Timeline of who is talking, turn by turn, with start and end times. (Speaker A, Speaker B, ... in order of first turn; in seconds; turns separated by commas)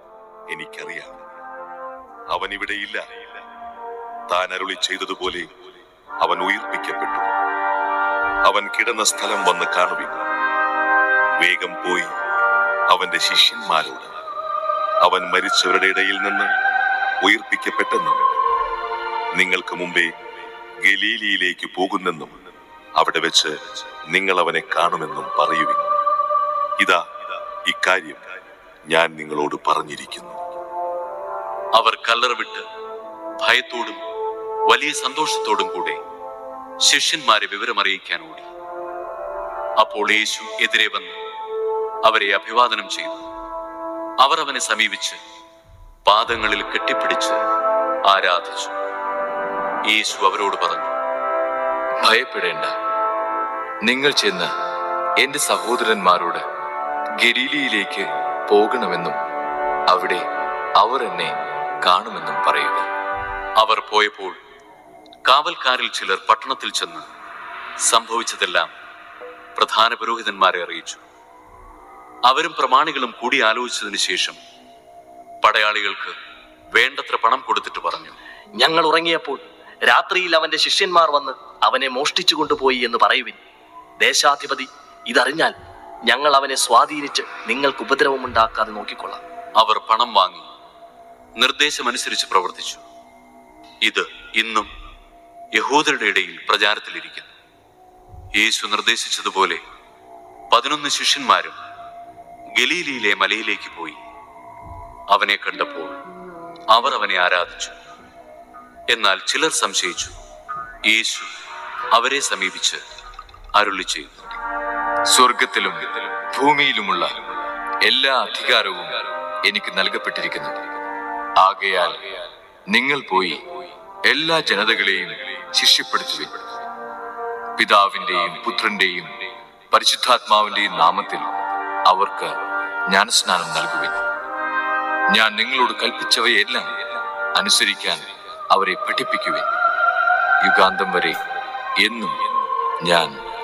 Speaker A: 0.5-1.2, Speaker A: 2.3-3.0, Speaker A: 4.3-5.5, Speaker A: 6.2-7.3, Speaker A: 8.4-10.2, Speaker A: 11.4-12.1, Speaker A: 12.9-14.1, Speaker A: 15.0-16.5, Speaker A: 17.2-18.3, Speaker A: 19.3-20.1, Speaker A: 20.8-22.4, Speaker A: 22.9-23.5, Speaker A: 24.1-25.9, Speaker A: 27.6-28.2, Speaker A: 28.9-30.4, Speaker B: 31.7-32.6, Speaker B: 33.4-34.0, Speaker B: 34.6-36.0, Speaker B: 36.8-38.5, Speaker B: 39.8-41.2, Speaker B: 42.0-43.2, Speaker B: 44.2-45.2, Speaker B: 46.0-47.4, Speaker B: 48.0-48.8, Speaker B: 49.9-50.9, Speaker C: 52.0-52.7, Speaker C: 53.8-54.5, Speaker C: 55.2-56.4, Speaker C: 57.2-59.2, Speaker C: 59.9-60.2, Speaker C: 60.8-62.9, Speaker B: 63.6-64.4, Speaker B: 65.2-67.1, Speaker B: 67.8-68.7, Speaker B: 69.5-71.0, Speaker B: 72.3-74.4, Speaker B: 75.4-76.1, Speaker B: 76.7-78.2, Speaker D: 78.6-83.4, Speaker D: 84.0-85.5, Speaker D: 86.0-89.2, Speaker B: 89.5-90.5, Speaker B: 91.3-92.8, Speaker B: 93.8-94.7, Speaker B: 95.5-97.3, Speaker B: 98.3-99.6, Speaker B: 100.5-101.6, Speaker B: 102.5-104.0, Speaker B: 105.1-106.0, Speaker B: 106.7-107.7, Speaker B: 108.9-110.1, Speaker B: 110.8-111.3, Speaker B: 111.9-112.8, Speaker B: 113.5-114.3, Speaker C: 115.1-117.2, Speaker C: 117.8-120.6, Speaker C: 121.4-122.0, Speaker C: 122.7-123.4, Speaker C: 124.0-126.4, Speaker C: 127.6-132.4, Speaker C: 132.9-134.0, Speaker C: 135.1-139.5, Speaker C: 140.4-141.2, Speaker C: 141.8-142.2, Speaker C: 142.8-143.2